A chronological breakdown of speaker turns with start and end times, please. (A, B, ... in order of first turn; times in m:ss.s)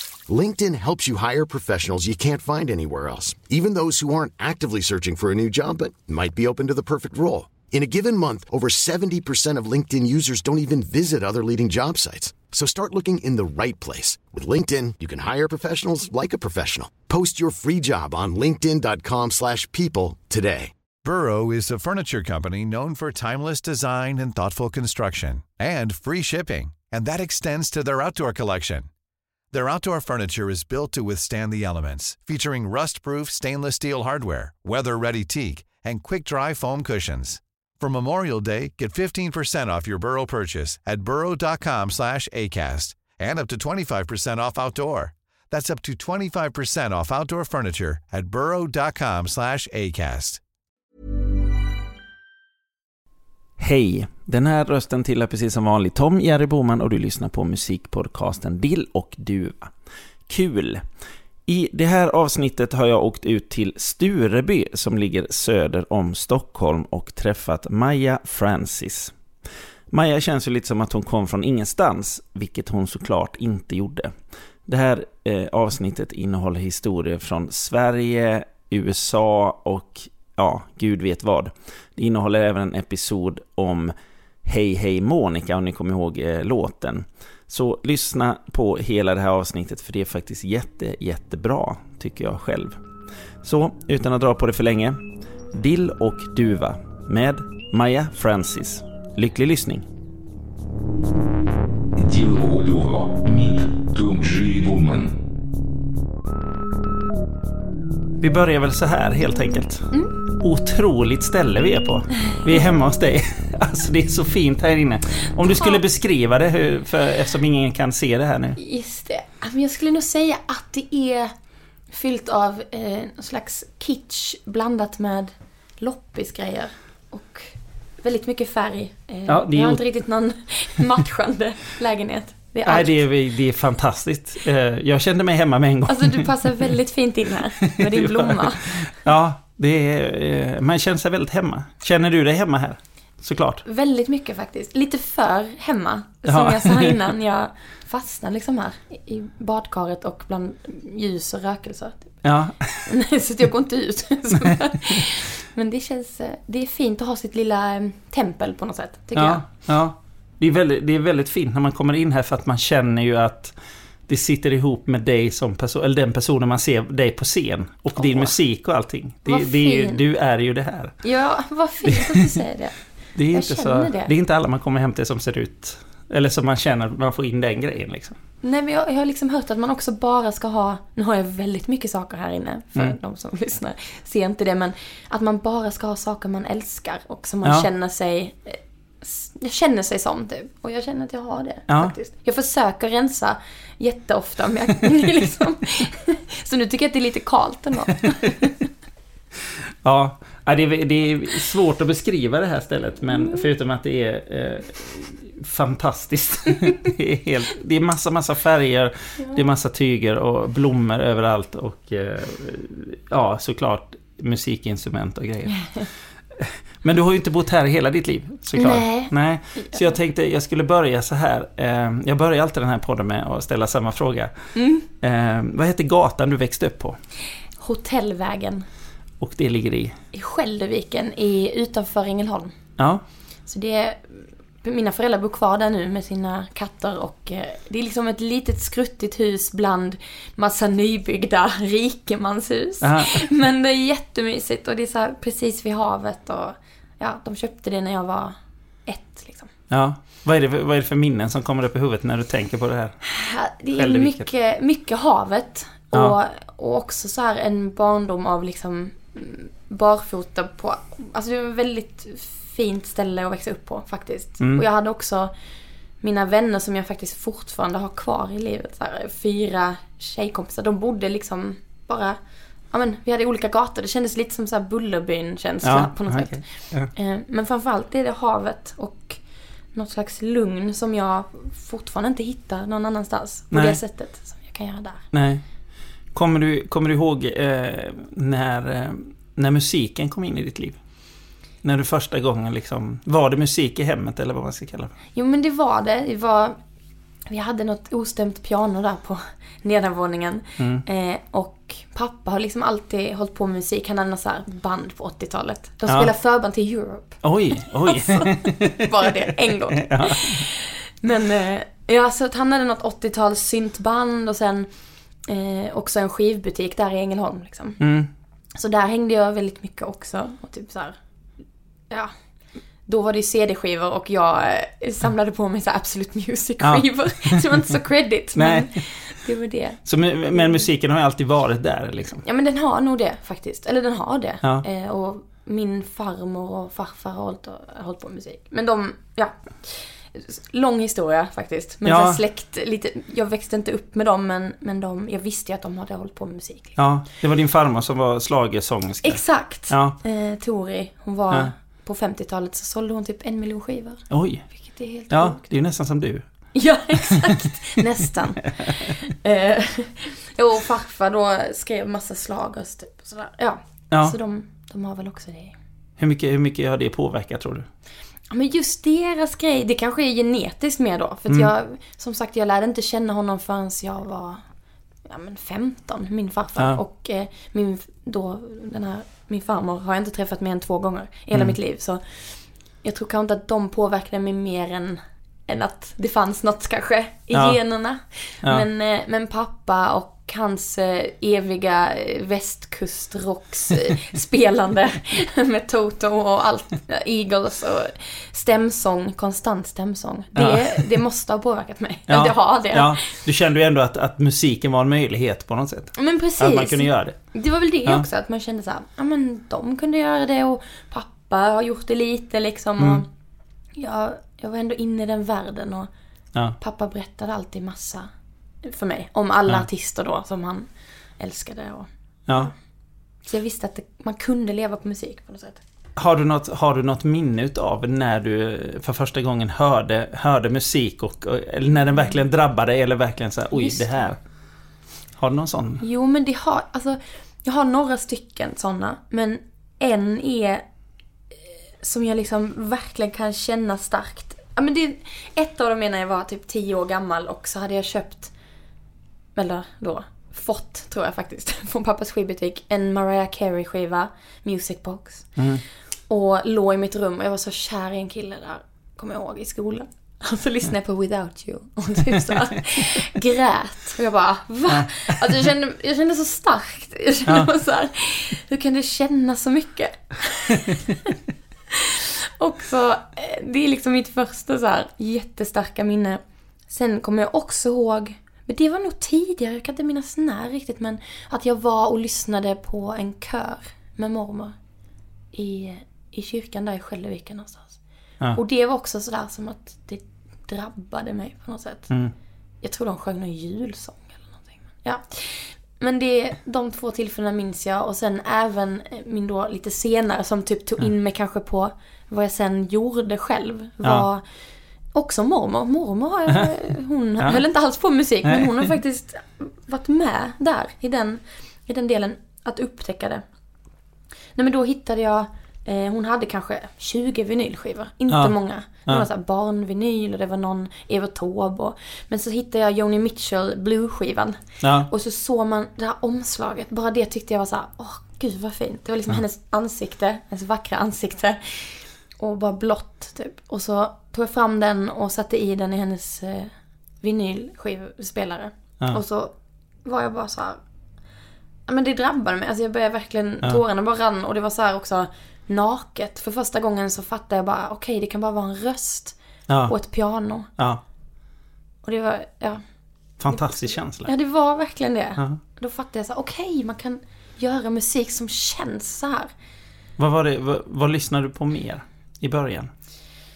0:00.3-0:20.7 A
0:21.0-0:28.9 B
0:29.5-0:50.4 B
0:53.6-0:59.7 C
1:00.3-1:00.8 C
1:01.5-1:09.1 C
1:09.9-1:14.1 C
1:14.7-1:23.9 C
1:24.4-1:32.8 C
1:33.4-1:35.0 C
1:35.5-1:39.8 C
1:42.0-1:45.2 D
1:48.2-1:49.9 C
1:50.4-1:58.6 C
1:58.6-2:01.3 E
2:01.9-2:13.0 E
2:09.3-2:09.8 C
2:12.7-2:16.7 C
2:15.9-2:18.9 E
2:17.6-2:23.6 C
2:23.6-2:32.1 E
2:26.3-2:27.0 C
2:32.2-2:32.8 C
2:32.8-2:39.4 E
2:34.4-2:35.0 C
2:39.2-2:43.6 C
2:44.1-2:51.0 C
2:48.0-2:48.4 E
2:49.3-2:50.0 E
2:51.0-2:52.8 E
2:51.9-2:52.2 C
2:53.2-2:58.2 C
2:53.3-2:54.1 E
2:58.4-3:18.6 E
3:11.7-3:12.0 C
3:19.8-3:44.3 C
3:23.1-3:23.4 E
3:35.6-3:35.8 E
3:38.6-3:39.9 E
3:44.6-3:44.8 E
3:45.0-3:47.0 C
3:47.6-3:48.7 E
3:49.2-3:50.0 C
3:50.1-3:52.6 E
3:52.8-3:53.0 C
3:53.5-4:08.4 E
4:02.8-4:03.3 C
4:08.9-4:09.5 E
4:09.7-4:13.0 C
4:13.0-4:25.3 E
4:13.8-4:14.3 C
4:24.4-4:24.6 C
4:26.0-4:32.2 E
4:32.7-4:39.2 E
4:35.6-4:36.9 C
4:39.7-4:45.0 E
4:43.5-4:43.8 C
4:45.1-4:45.4 C
4:46.1-4:50.8 C
4:51.6-4:55.0 C
4:55.2-4:56.6 E
4:57.3-5:07.2 E
5:00.6-5:00.8 C
5:07.2-5:08.8 C
5:07.9-5:14.7 E
5:09.8-5:10.4 C
5:15.3-5:17.8 E
5:17.8-5:18.1 C
5:18.6-5:21.0 E
5:22.9-5:30.7 E
5:26.6-5:27.6 C
5:28.4-5:28.8 C
5:29.8-5:32.2 C
5:32.2-5:46.8 E
5:41.8-5:42.2 C
5:46.8-5:50.0 C
5:49.0-5:55.4 E
5:54.1-5:56.2 C
5:56.6-6:05.6 E
5:57.0-5:57.3 C
6:06.0-6:07.7 C
6:08.3-6:14.4 E
6:15.0-6:43.0 E
6:27.3-6:27.6 C
6:40.4-6:40.9 C
6:42.1-6:47.3 C
6:46.0-6:53.1 E
6:52.8-6:53.0 C
6:53.8-6:55.9 E
6:56.6-6:58.1 E
6:58.6-7:01.9 E
7:02.3-7:02.5 C
7:03.3-7:05.6 E
7:06.0-7:14.2 C
7:13.5-7:14.1 E
7:15.2-7:15.8 C
7:15.8-7:20.6 E
7:21.8-7:28.3 E
7:29.4-7:35.4 E
7:35.4-7:35.6 C
7:36.1-7:50.8 E
7:44.7-7:45.5 C
7:51.7-8:04.6 E
8:05.3-8:07.8 E
8:08.4-8:11.9 E
8:12.6-8:24.2 E
8:24.9-8:33.2 E
8:28.2-8:28.7 C
8:34.4-8:59.3 E
8:38.1-8:39.1 C
8:44.6-8:44.9 C
8:59.8-9:00.6 E
9:01.7-9:09.2 E
9:09.5-9:09.8 C
9:09.7-9:10.5 E
9:11.8-9:12.6 E
9:13.2-9:14.1 C
9:13.3-9:19.3 E
9:20.0-9:22.7 C